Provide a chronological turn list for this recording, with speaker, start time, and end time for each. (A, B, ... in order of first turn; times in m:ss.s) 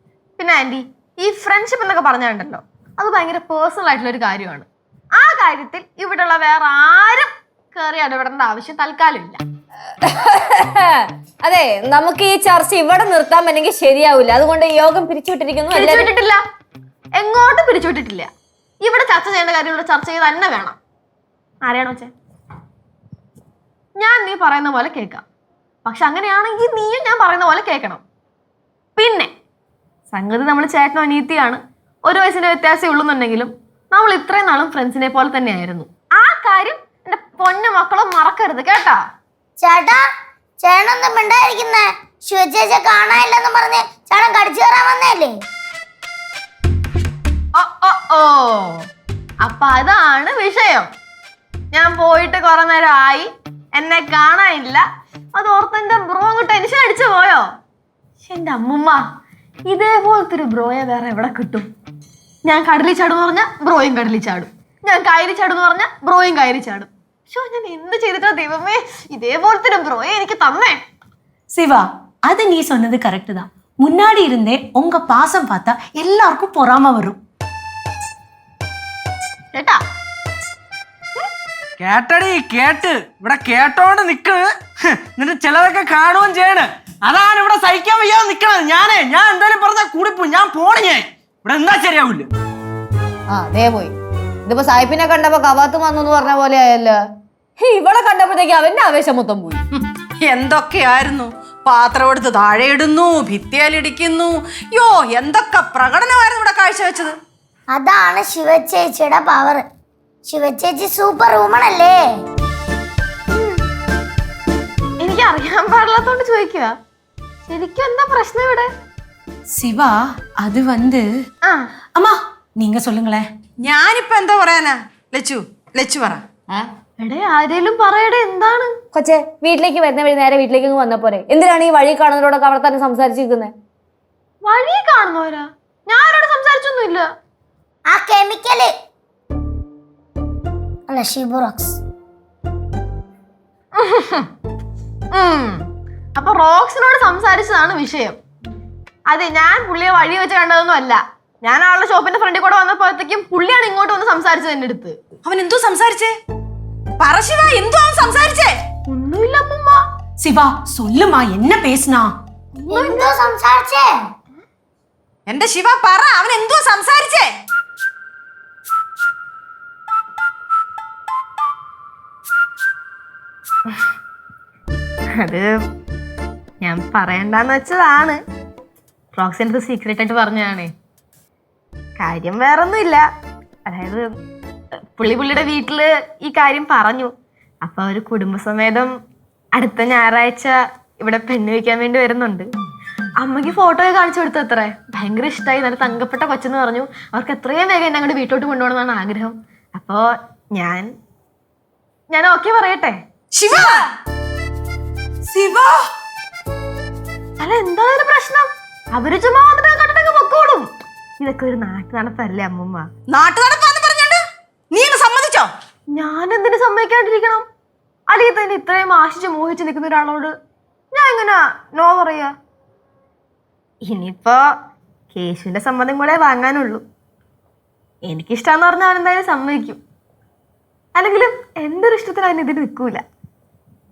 0:00.4-0:09.4 A
0:10.0-0:16.1 B
0:15.7-0:16.4 A
0:17.2-0:18.3 A
0:18.8-0:20.8 A
0:21.6-0:22.1 A
0:24.0-0:25.2 A
0:25.8-0:28.0 A
0:29.0-0:29.3 A
0:30.1-0:39.0 A
0:39.6-0:40.0 C
0:40.6-0:45.3 C
0:47.6-0:48.8 A
0:49.4-0:50.9 A
0:51.7-0:57.5 A
0:58.2-0:59.0 A
0:59.7-1:01.7 A
1:02.4-1:10.8 A
1:11.5-1:17.2 D
1:19.5-1:19.8 A
1:21.8-1:32.3 E
1:33.3-1:33.9 B
1:34.5-1:37.0 B
1:37.6-1:39.6 B
1:39.8-1:47.2 F
1:47.7-1:49.6 C
1:50.3-1:52.0 C
1:53.3-1:53.6 A
1:55.0-1:56.8 A
1:57.4-1:58.7 A
1:59.5-2:01.0 D
2:01.9-2:03.2 D
2:03.6-2:06.2 F
2:07.0-2:08.7 A
2:08.9-2:13.5 B
2:14.4-2:17.1 A
2:17.9-2:18.7 C
2:20.9-2:21.8 C
2:23.7-2:24.3 A
2:25.1-2:25.6 A
2:26.2-2:28.2 A
2:29.1-2:35.0 A
2:35.2-2:36.1 F
2:37.0-2:38.5 F
2:38.9-2:39.8 A
2:40.2-2:42.1 D
2:42.5-2:43.3 A
2:42.7-2:43.9 C
2:45.3-2:47.3 F
2:55.2-2:55.5 A
2:56.6-2:58.2 A
2:59.1-3:00.7 A
3:02.0-3:03.0 A
3:03.7-3:04.1 A
3:05.0-3:07.1 A
3:07.6-3:08.9 A
3:09.5-3:12.5 A
3:13.2-3:20.9 A
3:22.1-3:23.0 A
3:23.3-3:23.8 F
3:27.4-3:30.7 A
3:31.2-3:32.9 A
3:33.1-3:34.2 F
3:34.7-3:35.5 F
3:35.9-3:37.4 A
3:38.1-3:40.3 A
3:40.9-3:42.3 A
3:43.8-3:44.4 A
3:45.1-3:46.8 A
3:48.0-3:49.8 A
3:50.9-3:53.0 A